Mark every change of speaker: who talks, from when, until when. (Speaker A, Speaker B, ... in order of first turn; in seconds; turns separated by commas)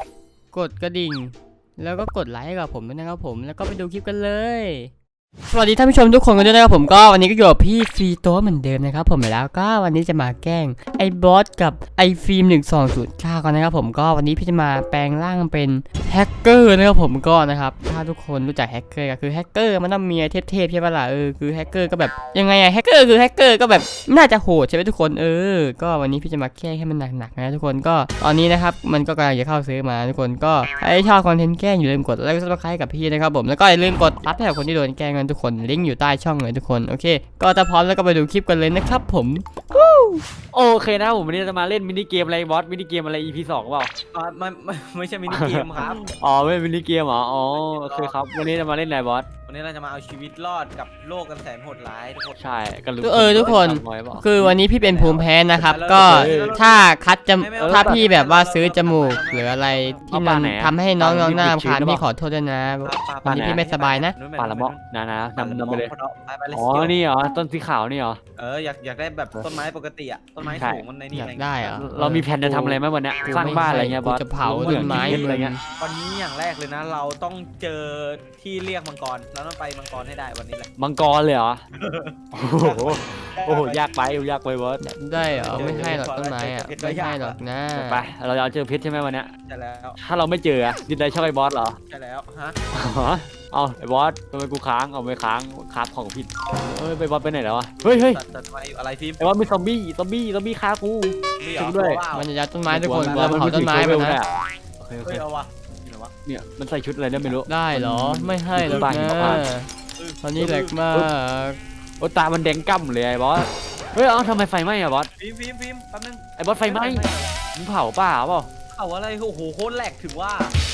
Speaker A: 0.5-4.9, Speaker A: 5.5-40.2, Speaker B: 40.5-43.9, Speaker C: 44.1-46.1, Speaker B: 45.3-49.3, Speaker C: 47.5-48.1, Speaker C: 49.5-52.4, Speaker B: 52.4-54.6, Speaker A: 53.0-64.2, Speaker C: 54.8-60.0, Speaker B: 55.9-56.5, Speaker B: 57.6-58.0, Speaker B: 60.1-62.0, Speaker C: 62.8-64.8, Speaker B: 63.2-63.6, Speaker B: 64.4-65.9, Speaker C: 65.4-67.0, Speaker B: 66.5-68.2, Speaker C: 68.4-71.8, Speaker B: 70.4-70.8, Speaker A: 71.1-75.6, Speaker B: 71.8-75.5, Speaker C: 74.6-80.7, Speaker B: 80.8-81.6, Speaker C: 81.8-83.9, Speaker B: 82.3-84.8, Speaker A: 84.8-88.1, Speaker C: 85.2-87.4, Speaker B: 85.5-86.0, Speaker B: 87.7-89.3, Speaker C: 89.5-90.0, Speaker B: 90.0-91.8, Speaker C: 91.9-92.6, Speaker B: 92.7-98.2, Speaker C: 97.8-99.2, Speaker B: 99.2-102.0, Speaker C: 101.4-102.3, Speaker A: 102.1-104.2, Speaker B: 102.7-104.3, Speaker B: 104.8-105.2, Speaker C: 105.0-106.1, Speaker B: 106.2-109.4, Speaker A: 107.5-109.7, Speaker C: 108.5-109.4, Speaker C: 110.0-110.7, Speaker A: 110.2-111.6, Speaker B: 110.4-111.1, Speaker B: 112.0-115.1, Speaker C: 115.2-117.4, Speaker B: 116.4-118.5, Speaker C: 118.7-120.5